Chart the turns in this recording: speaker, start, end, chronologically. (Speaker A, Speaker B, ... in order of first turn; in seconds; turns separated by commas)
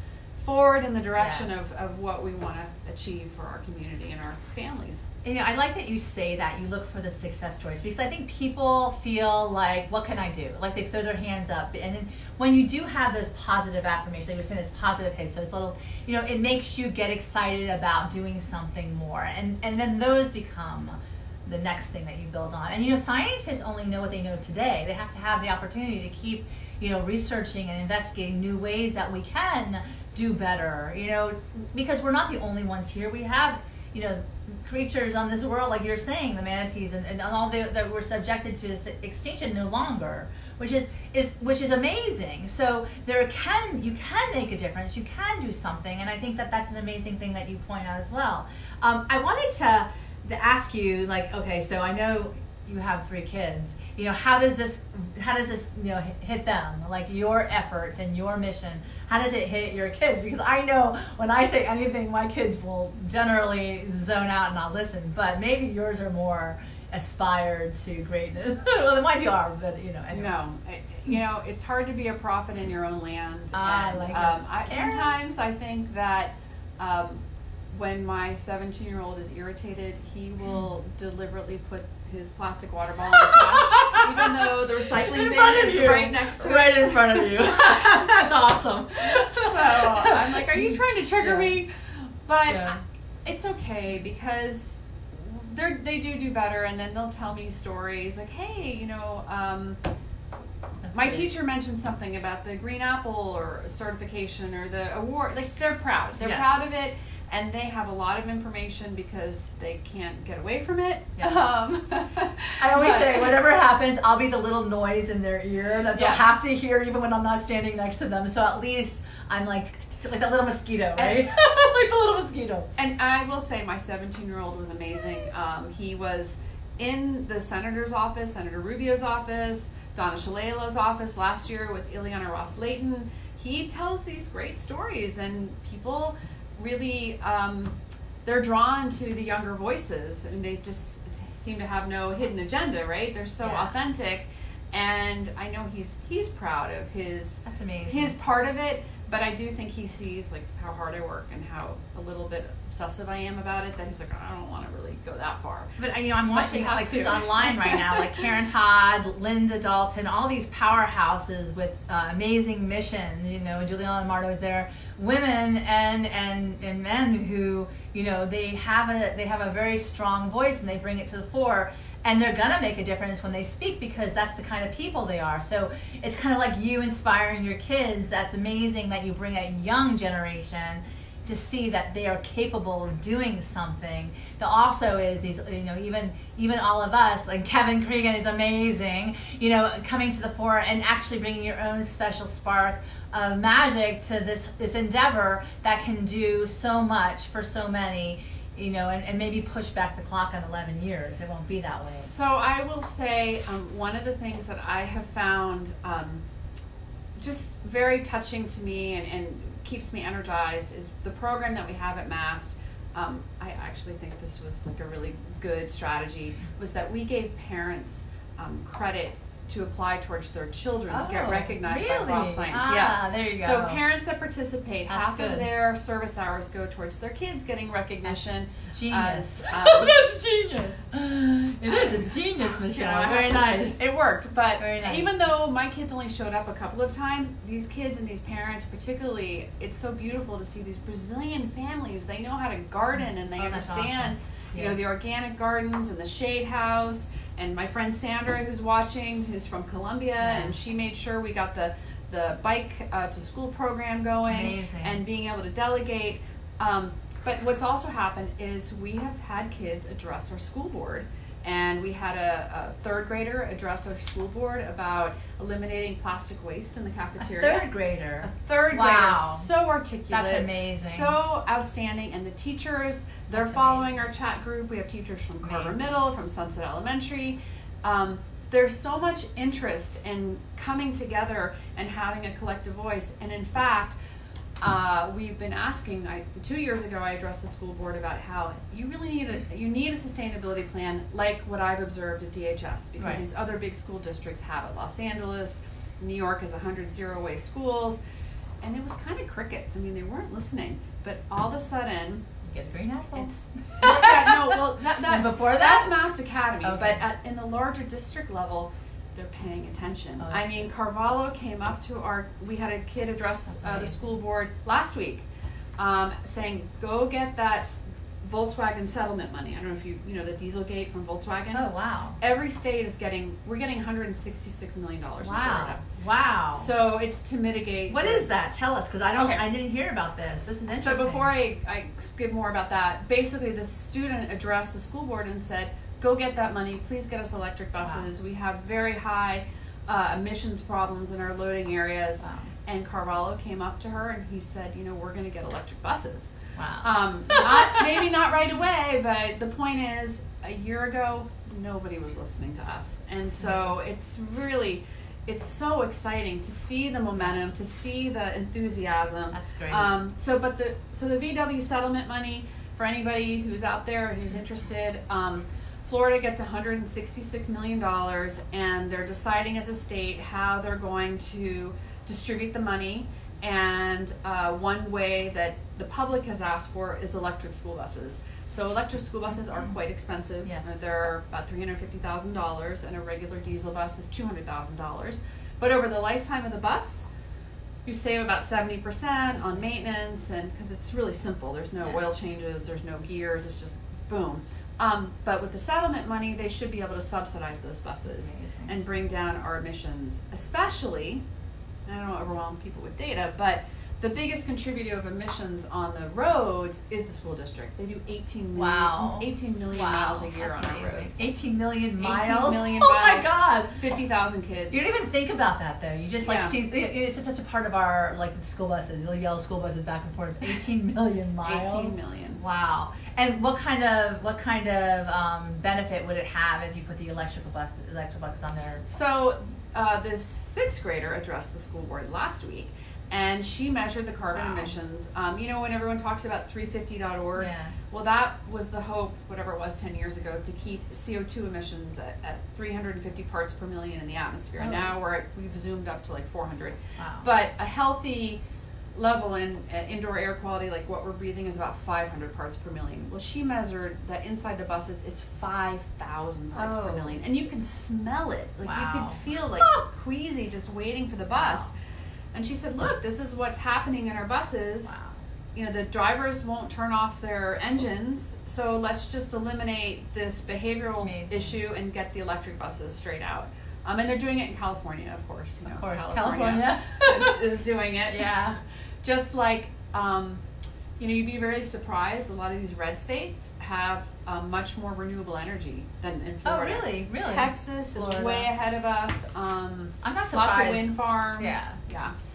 Speaker A: 0.4-5.1, Speaker B: 1.2-1.5, Speaker B: 5.2-70.3, Speaker A: 70.1-88.2, Speaker B: 73.5-75.1, Speaker B: 83.1-91.5, Speaker A: 89.0-99.8, Speaker B: 92.5-92.8, Speaker B: 100.8-101.3, Speaker A: 100.9-113.4, Speaker B: 106.2-106.6, Speaker B: 112.6-122.7, Speaker A: 115.9-116.4, Speaker A: 122.8-155.8, Speaker B: 143.4-143.7, Speaker B: 147.4-148.1, Speaker B: 155.8-202.1, Speaker A: 156.3-158.3, Speaker A: 201.8-206.2, Speaker A: 207.2-230.0, Speaker B: 220.9-223.8, Speaker B: 224.9-225.5, Speaker B: 228.0-233.8, Speaker A: 231.7-267.6, Speaker B: 234.6-235.1, Speaker B: 243.4-244.8, Speaker B: 250.2-250.6, Speaker B: 254.3-255.0, Speaker B: 267.2-269.5, Speaker A: 268.2-283.9, Speaker B: 270.1-271.1, Speaker B: 273.3-273.8, Speaker B: 275.4-275.8, Speaker A: 284.6-298.0, Speaker A: 298.6-302.3, Speaker B: 302.4-306.0, Speaker A: 303.2-315.3, Speaker B: 306.6-307.0, Speaker B: 310.2-310.7, Speaker B: 313.5-313.9, Speaker A: 315.8-321.7, Speaker B: 321.5-322.2, Speaker A: 322.2-325.8, Speaker B: 325.2-326.7, Speaker A: 326.5-328.3, Speaker B: 327.9-331.3, Speaker A: 329.2-329.4, Speaker A: 330.8-387.1, Speaker B: 342.2-342.5, Speaker B: 346.6-348.1, Speaker B: 353.4-353.7, Speaker B: 359.3-359.9, Speaker B: 380.4-380.8, Speaker A: 387.9-401.2, Speaker B: 398.1-398.8, Speaker A: 401.9-411.2, Speaker B: 408.6-413.8, Speaker A: 412.0-414.9, Speaker B: 414.7-428.9, Speaker A: 416.2-416.6, Speaker A: 421.4-422.4, Speaker A: 428.9-448.4, Speaker B: 434.3-434.7, Speaker B: 437.4-437.8, Speaker B: 444.6-444.9, Speaker B: 447.0-447.3, Speaker A: 448.9-461.7, Speaker B: 456.6-457.2, Speaker B: 458.6-459.8, Speaker B: 461.4-461.7, Speaker A: 462.3-464.9, Speaker B: 464.9-465.2, Speaker A: 465.5-478.4, Speaker B: 471.0-471.6, Speaker B: 475.7-477.4, Speaker B: 478.1-478.6, Speaker A: 479.0-480.4, Speaker A: 481.0-492.1, Speaker B: 486.4-488.5, Speaker B: 490.0-491.8